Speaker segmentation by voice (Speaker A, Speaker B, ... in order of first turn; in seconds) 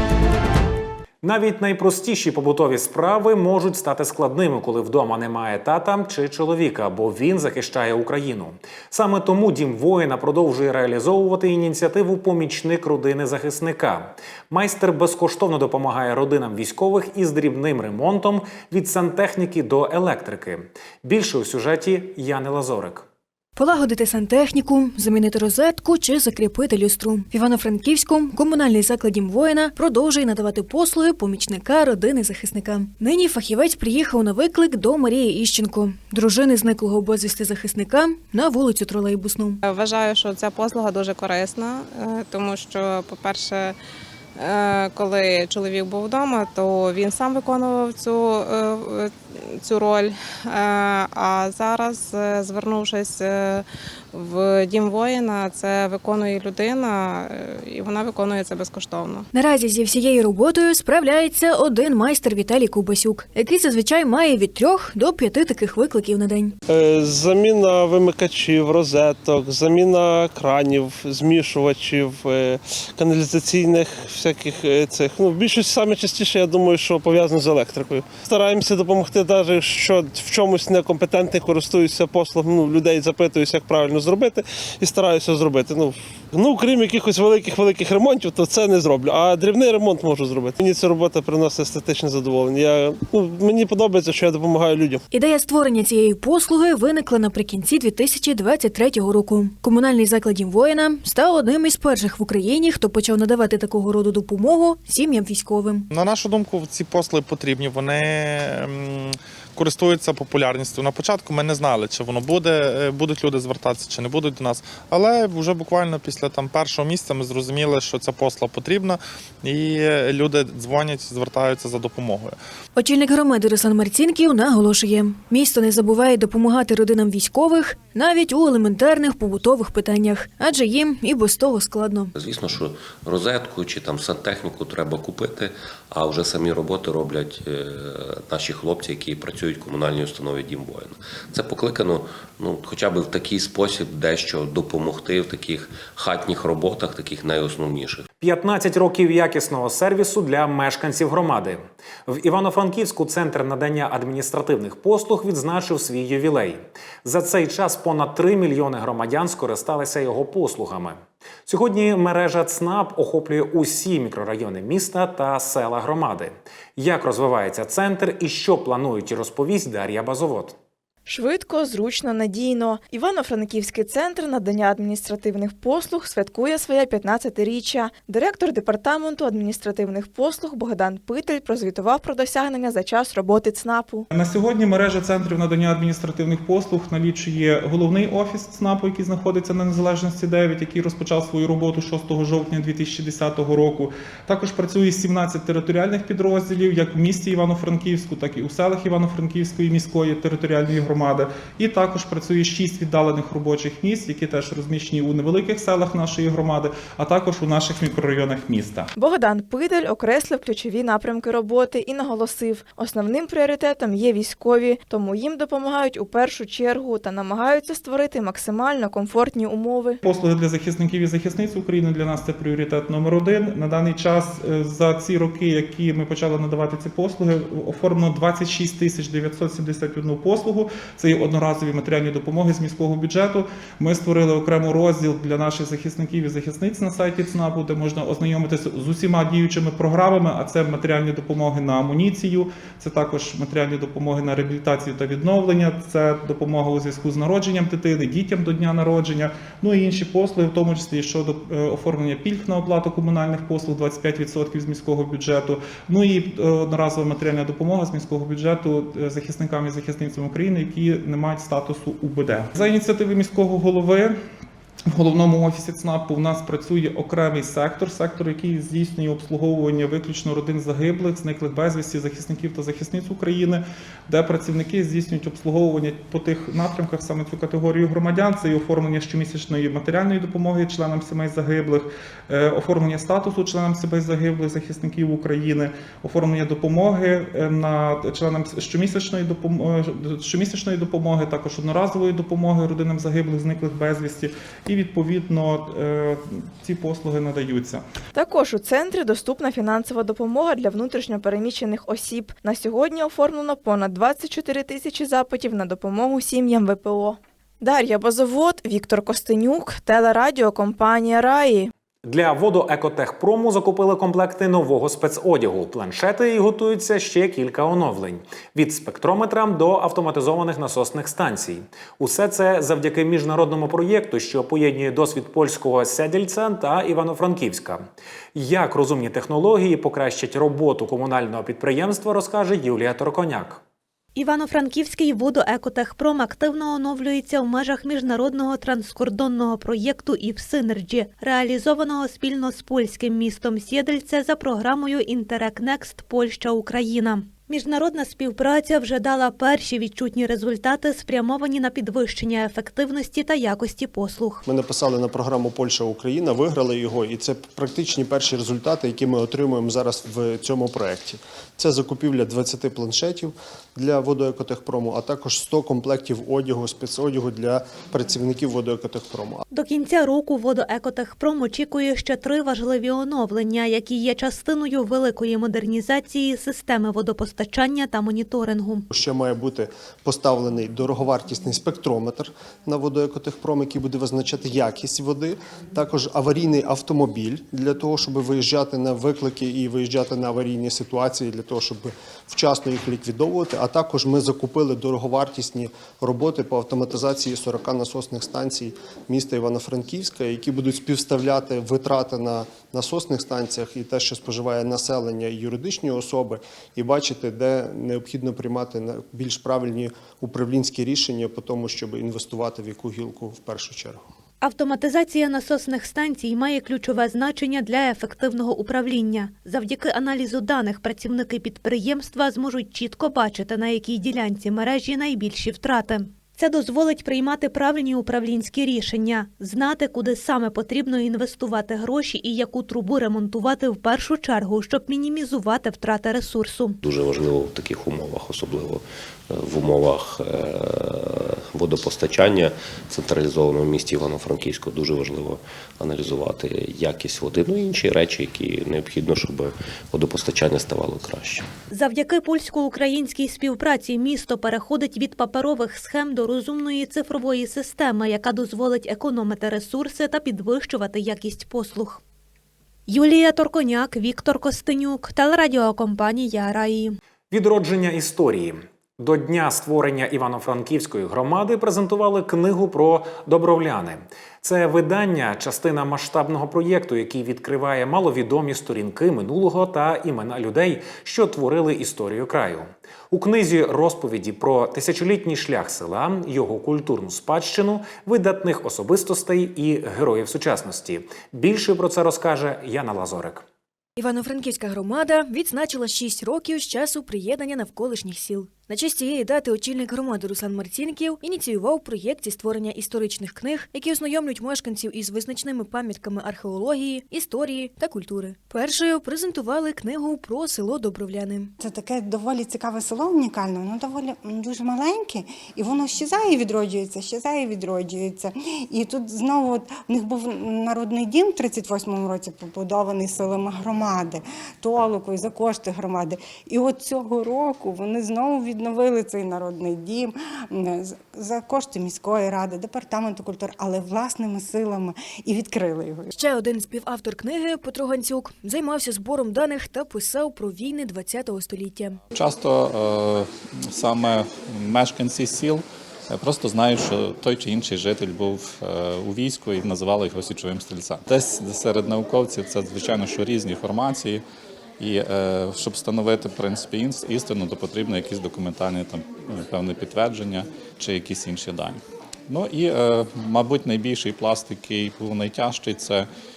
Speaker A: 1.2-23.0, 148.2-170.5, 312.0-327.8, 328.3-333.6, 467.3-493.4
Speaker B: 23.6-39.6, 59.3-66.5, 95.1-105.9, 122.8-132.1, 494.0-511.5, 536.1-542.0
Speaker C: 39.6-43.7, 44.4-59.2
Speaker D: 66.7-95.0
Speaker E: 105.9-122.3
Speaker F: 132.2-148.0, 436.8-451.4
Speaker G: 171.1-184.0, 209.0-220.0, 298.1-311.7
Speaker H: 184.1-208.9, 220.0-264.1, 264.9-297.8
Speaker I: 334.1-354.4, 369.5-378.9, 414.4-436.8, 451.7-462.0, 462.9-467.0
Speaker J: 354.4-369.4, 378.9-414.0
Speaker K: 511.6-536.1
Speaker L: 542.1-554.2, 554.8-566.1